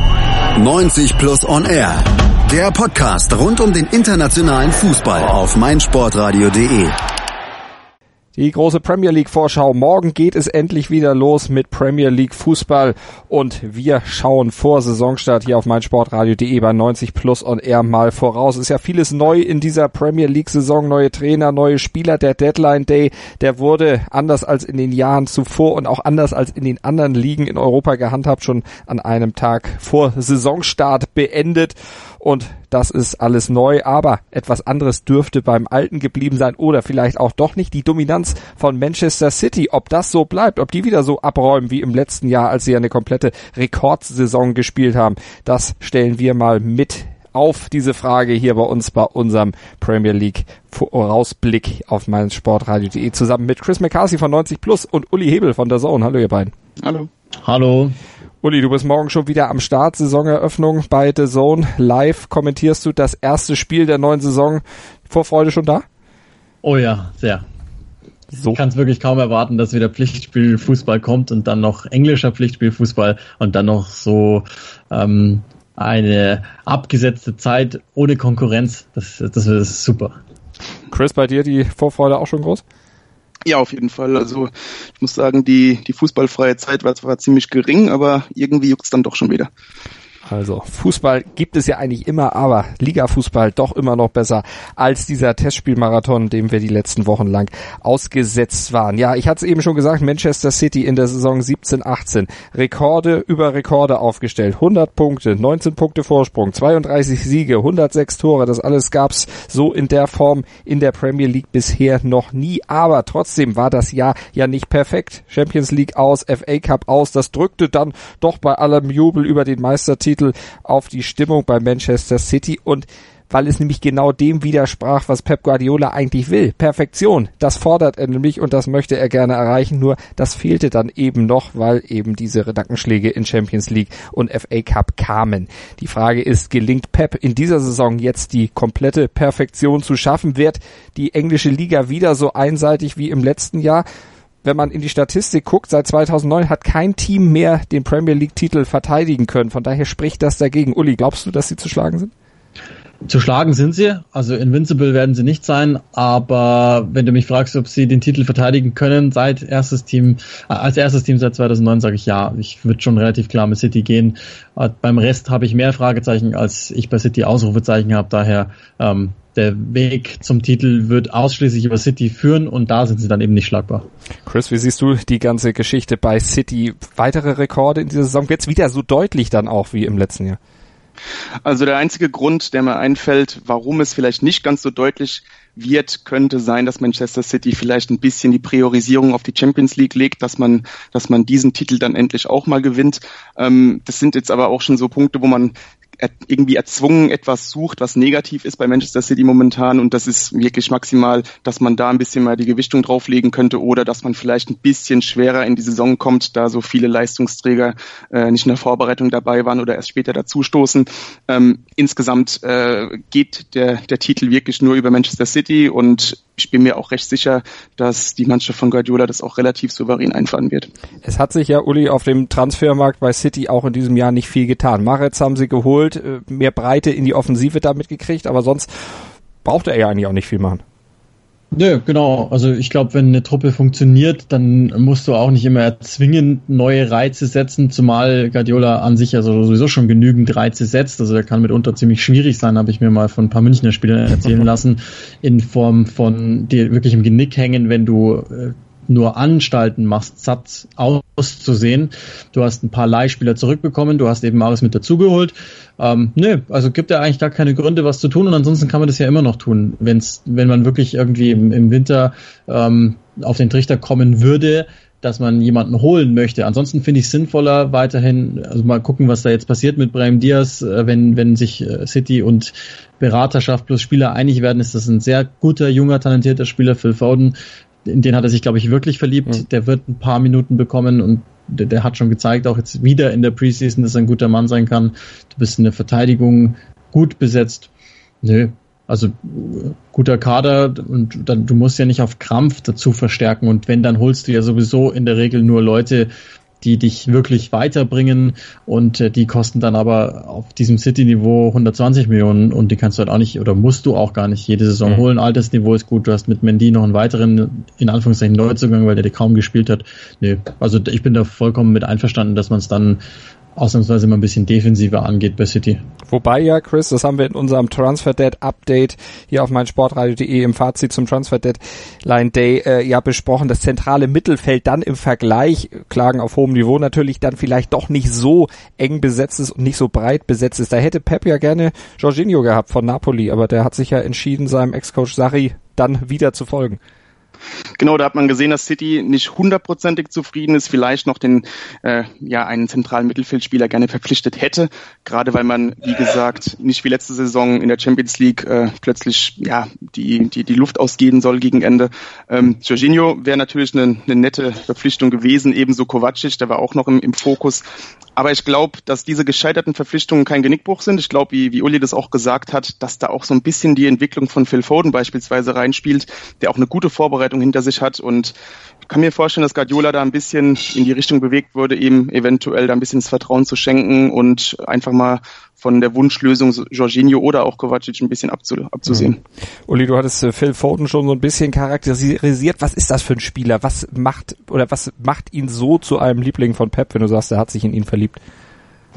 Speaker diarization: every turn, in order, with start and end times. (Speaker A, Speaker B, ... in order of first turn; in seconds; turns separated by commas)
Speaker A: 0.5-7.0, Speaker B: 8.3-56.5, Speaker C: 56.8-57.1, Speaker D: 57.4-58.0, Speaker B: 58.4-65.8, Speaker D: 66.6-67.4, Speaker B: 68.3-68.6, Speaker D: 68.5-80.2, Speaker B: 80.9-82.6, Speaker C: 83.5-89.5, Speaker B: 90.3-143.8, Speaker B: 144.4-152.1, Speaker D: 153.0-173.8, Speaker B: 174.2-180.4, Speaker C: 181.4-220.7, Speaker B: 221.0-228.7, Speaker B: 229.4-230.6, Speaker D: 231.5-287.7, Speaker D: 288.2-313.0, Speaker D: 313.6-315.8, Speaker B: 316.1-336.8, Speaker C: 337.8-357.6, Speaker C: 358.2-368.3, Speaker C: 368.9-379.2, Speaker B: 379.7-388.2